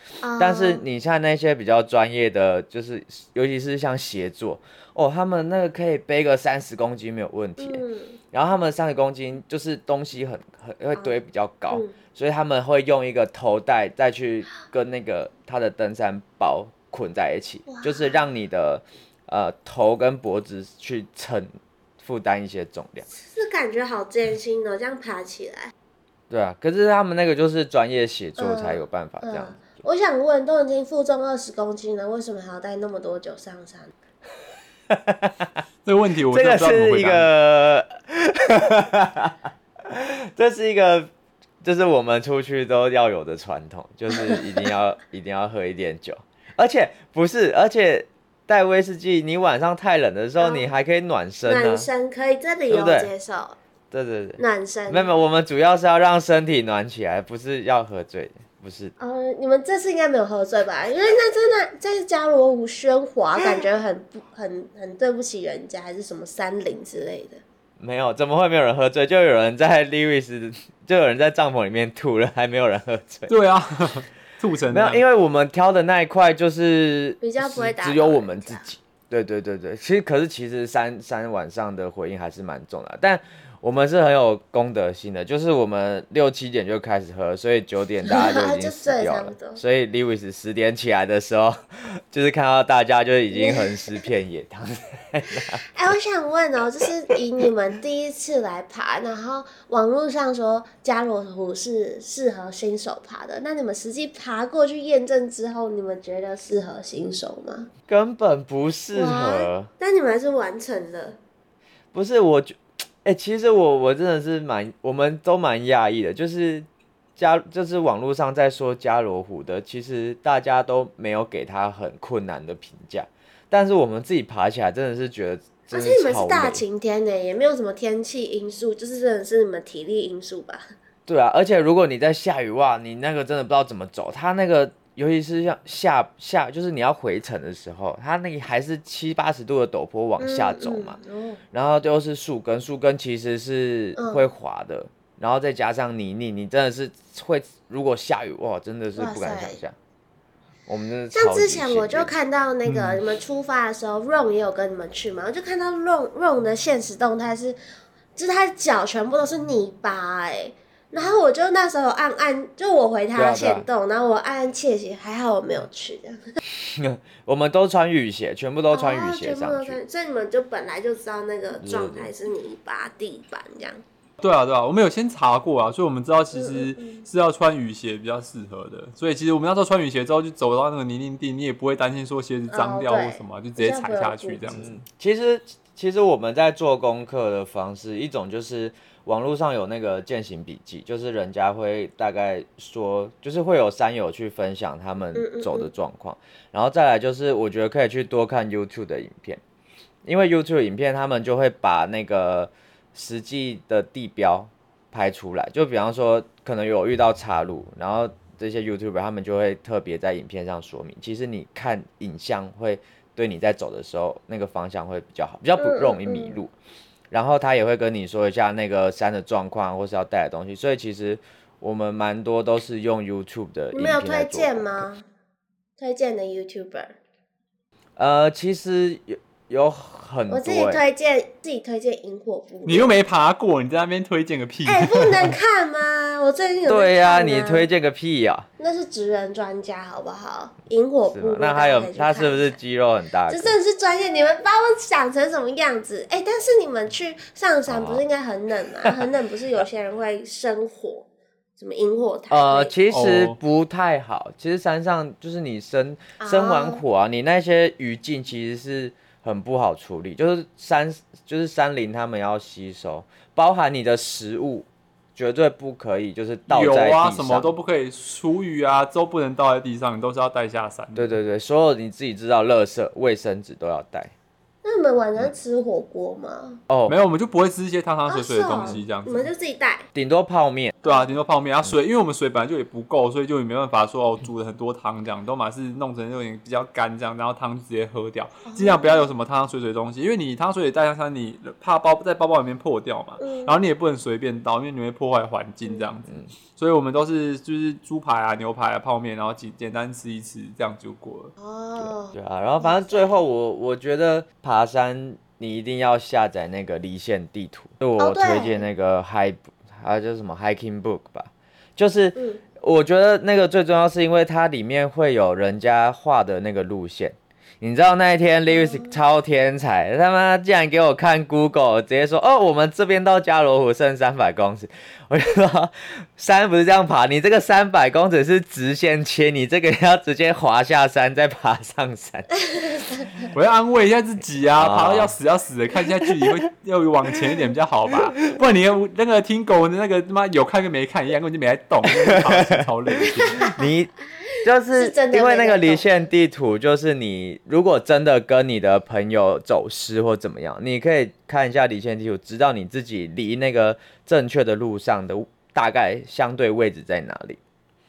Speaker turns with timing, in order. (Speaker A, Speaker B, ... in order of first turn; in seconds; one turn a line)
Speaker A: 0.2-0.8
Speaker B: 0.4-21.5
Speaker A: 7.6-8.2
Speaker A: 11.7-11.9
Speaker A: 17.7-18.2
Speaker B: 22.0-23.1
Speaker A: 23.1-25.7
Speaker B: 26.3-29.8
Speaker A: 28.4-33.9
Speaker B: 34.9-35.5
Speaker C: 35.8-37.3
Speaker B: 36.3-41.1
Speaker B: 41.6-51.9
Speaker A: 44.1-44.4
Speaker A: 50.4-50.7
Speaker A: 51.4-53.6
Speaker B: 52.7-53.1
Speaker B: 53.9-58.9
Speaker A: 54.4-55.1
Speaker A: 59.0-67.4
Speaker B: 67.8-73.3
Speaker C: 73.3-75.0
Speaker B: 74.7-95.6
Speaker A: 77.2-78.7
Speaker A: 88.0-89.6
Speaker A: 93.3-94.0
Speaker A: 95.7-107.7
Speaker B: 107.9-109.7
Speaker A: 108.9-111.2
Speaker B: 111.9-126.6
Speaker A: 125.7-130.6
Speaker B: 131.1-141.0
Speaker A: 140.2-141.4
Speaker B: 141.5-149.7
Speaker A: 143.9-144.3
Speaker A: 148.9-149.6
Speaker B: 150.7-152.1
Speaker A: 151.1-157.6
Speaker C: 152.7-153.0
Speaker A: 158.2-166.2
Speaker B: 163.1-163.7
Speaker B: 166.5-169.8
Speaker A: 168.7-173.8
Speaker B: 171.6-172.1
Speaker C: 174.2-184.7
Speaker A: 176.3-177.1
Speaker A: 182.5-184.6
Speaker B: 184.5-199.4
Speaker A: 195.1-195.7
Speaker B: 200.0-216.5
Speaker A: 215.6-216.4
Speaker B: 217.1-224.8
Speaker A: 223.7-225.0
Speaker A: 225.8-226.9
Speaker B: 228.0-230.8
Speaker A: 230.3-232.9
Speaker C: 232.7-235.4
Speaker A: 234.7-237.7
Speaker B: 236.7-238.5
Speaker A: 238.6-242.6
Speaker B: 241.1-243.6
Speaker A: 243.3-251.1
Speaker B: 247.7-248.0
Speaker A: 251.6-252.7
Speaker B: 252.3-267.5
Speaker C: 252.9-253.4
Speaker A: 256.2-256.8
Speaker C: 266.5-271.1
Speaker B: 270.9-274.1
Speaker A: 274.6-276.6
Speaker B: 276.7-276.9
Speaker C: 276.9-279.3
Speaker A: 278.1-279.9
Speaker B: 278.5-278.8
Speaker B: 279.9-280.8
Speaker C: 280.8-301.3
Speaker A: 280.8-281.1
Speaker A: 288.5-289.1
Speaker A: 293.2-293.6
Speaker A: 301.4-303.2
Speaker B: 302.1-332.3
Speaker A: 308.0-308.6
Speaker A: 312.1-312.4
Speaker A: 318.5-319.0
Speaker A: 332.4-333.3
Speaker C: 333.3-343.4
Speaker B: 334.6-335.1
Speaker B: 341.8-357.4
Speaker A: 343.0-343.6
Speaker A: 344.3-346.1